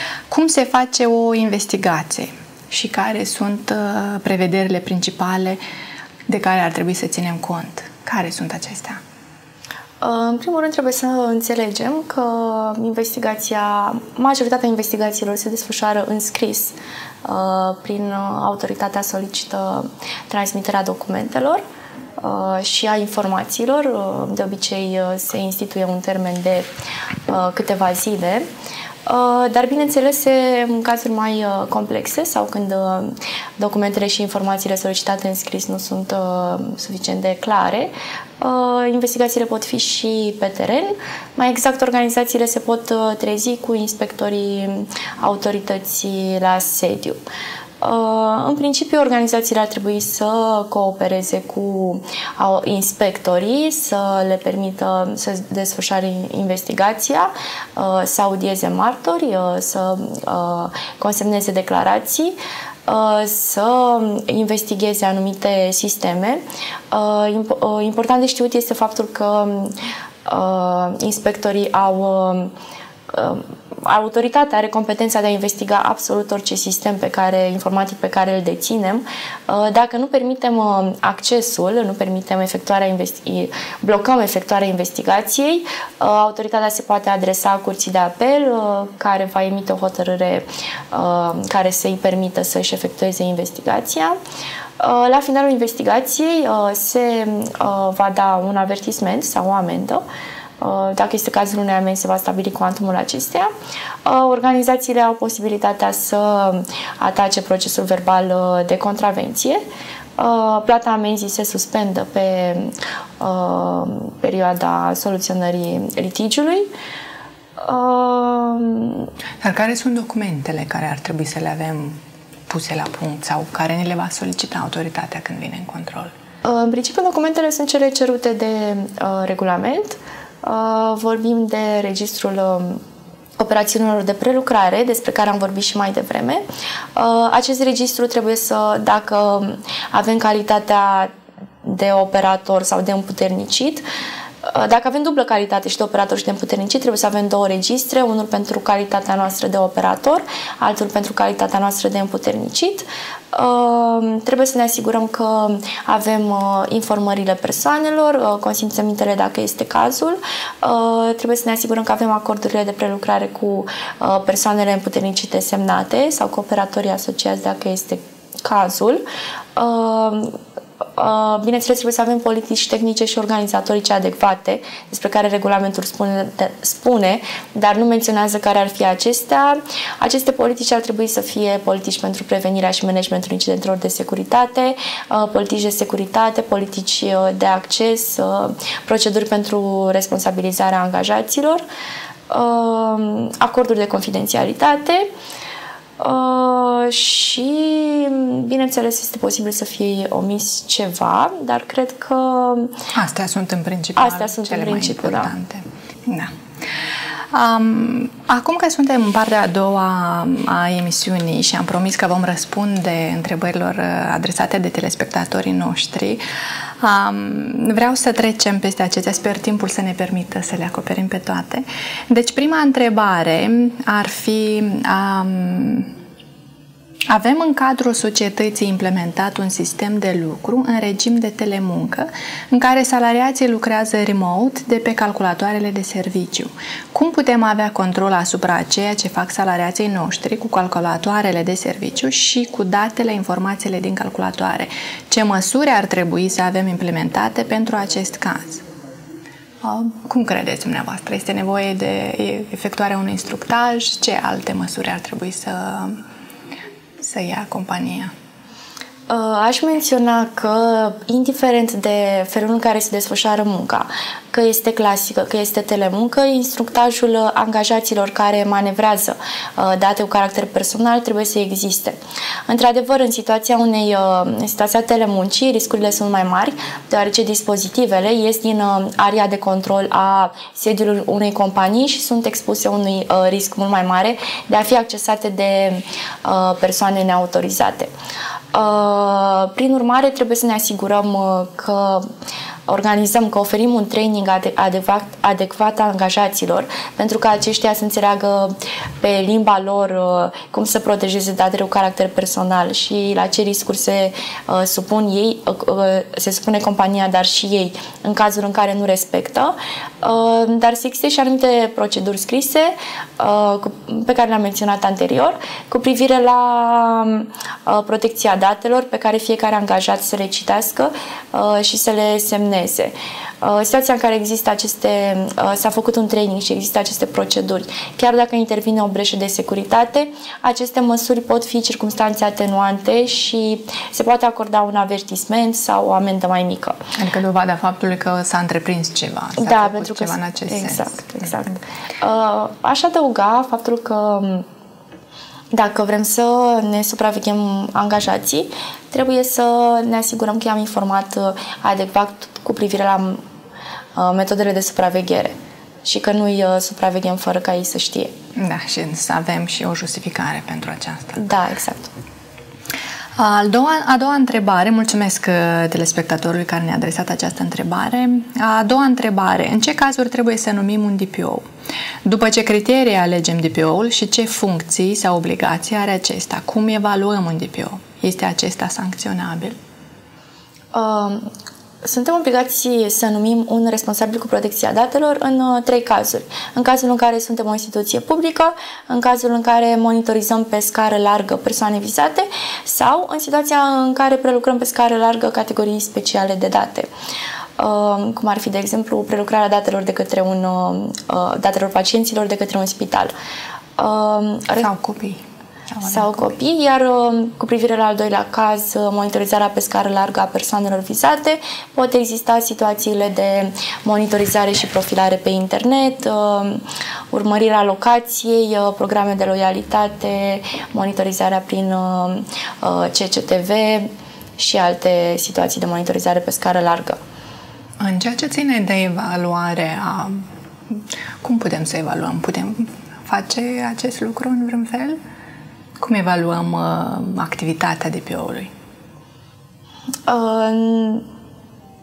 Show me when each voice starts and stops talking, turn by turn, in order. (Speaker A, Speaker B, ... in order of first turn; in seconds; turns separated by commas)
Speaker A: 0.3-5.6, Speaker A: 6.3-9.0, Speaker B: 10.0-21.6, Speaker B: 22.2-26.7, Speaker B: 27.3-28.4, Speaker B: 29.1-47.2, Speaker B: 47.8-62.4, Speaker B: 62.9-69.7, Speaker B: 70.2-72.5, Speaker B: 73.1-94.2, Speaker B: 94.8-100.0, Speaker B: 100.6-103.5, Speaker B: 104.0-109.6, Speaker B: 110.2-116.7, Speaker B: 117.6-119.1, Speaker A: 119.4-122.0, Speaker A: 122.5-126.1, Speaker B: 126.4-132.8, Speaker B: 133.4-136.4, Speaker B: 136.9-141.1, Speaker B: 141.6-143.8, Speaker B: 144.4-169.0, Speaker B: 169.6-170.4, Speaker B: 171.0-191.6, Speaker B: 192.3-195.1, Speaker B: 196.0-202.8, Speaker A: 202.9-206.3, Speaker B: 203.9-205.3, Speaker A: 207.3-216.2, Speaker A: 216.8-225.9, Speaker A: 227.1-248.6, Speaker A: 249.6-256.0, Speaker A: 257.0-258.1, Speaker B: 259.1-272.0, Speaker B: 272.5-287.9, Speaker B: 288.5-292.1, Speaker B: 292.7-336.8, Speaker A: 336.9-341.3, Speaker B: 339.4-344.4, Speaker B: 345.5-353.2, Speaker B: 353.9-355.3, Speaker B: 355.8-358.1, Speaker A: 358.4-361.2, Speaker B: 361.1-361.9, Speaker A: 363.2-371.4, Speaker A: 372.0-379.6, Speaker B: 380.7-381.3, Speaker B: 381.8-396.9, Speaker B: 397.6-403.1, Speaker B: 403.8-404.7, Speaker A: 404.6-405.2, Speaker A: 405.7-406.2, Speaker B: 405.8-427.0, Speaker A: 427.8-435.0, Speaker A: 435.8-438.5, Speaker B: 440.1-441.0